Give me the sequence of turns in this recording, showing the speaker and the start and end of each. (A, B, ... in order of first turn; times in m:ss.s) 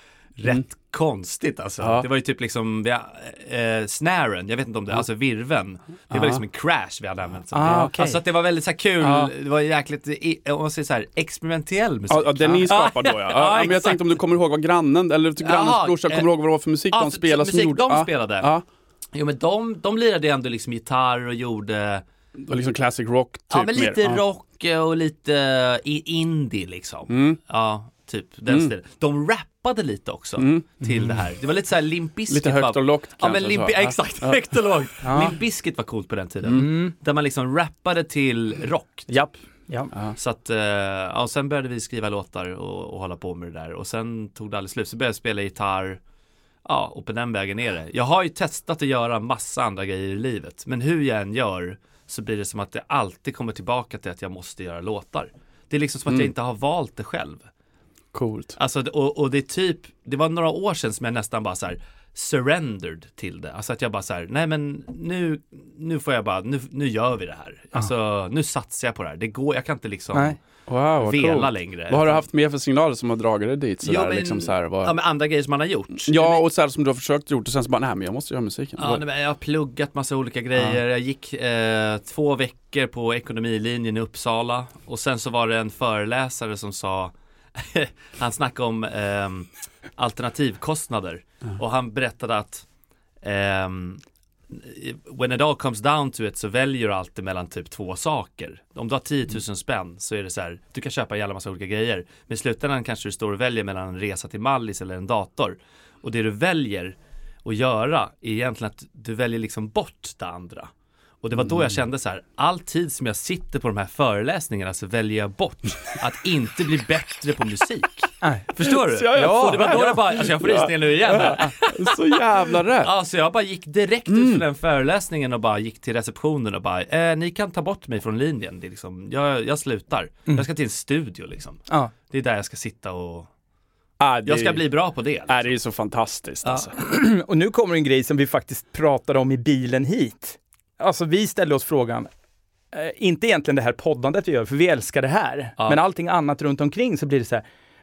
0:00.4-0:14.0 A
0:01.8-0:02.1 B
0:06.1-0:06.4 B
0:07.5-0:08.2 C
0:09.0-0:09.3 B
0:12.1-0:18.6 B
0:15.4-0:16.3 A
0:16.9-0:18.5 A
0:19.1-0:22.0 A
0:22.4-0:24.2 B
0:23.5-0:39.2 A
0:27.1-0:27.4 B
0:30.4-0:30.8 B
0:32.3-0:34.4 B
0:35.0-0:35.4 C
0:36.5-0:36.9 C
0:39.1-0:39.9 C
0:40.2-0:46.0 A
0:46.6-0:57.4 A
0:58.1-0:58.6 B
0:58.6-1:10.4 A
1:10.7-1:14.9 B
1:11.0-1:12.2 A
1:13.8-1:16.5 A
1:16.1-1:19.0 B
1:18.8-1:32.6 A
1:33.2-1:50.7 A
1:51.2-2:02.2 A
1:58.2-1:58.5 C
1:58.6-2:02.9 B
1:59.1-1:59.9 C
2:02.8-2:13.3 A
2:04.1-2:04.4 B
2:14.0-2:14.6 B
2:14.3-2:15.5 A
2:15.3-2:16.8 B
2:16.7-2:22.1 C
2:22.7-2:27.4 C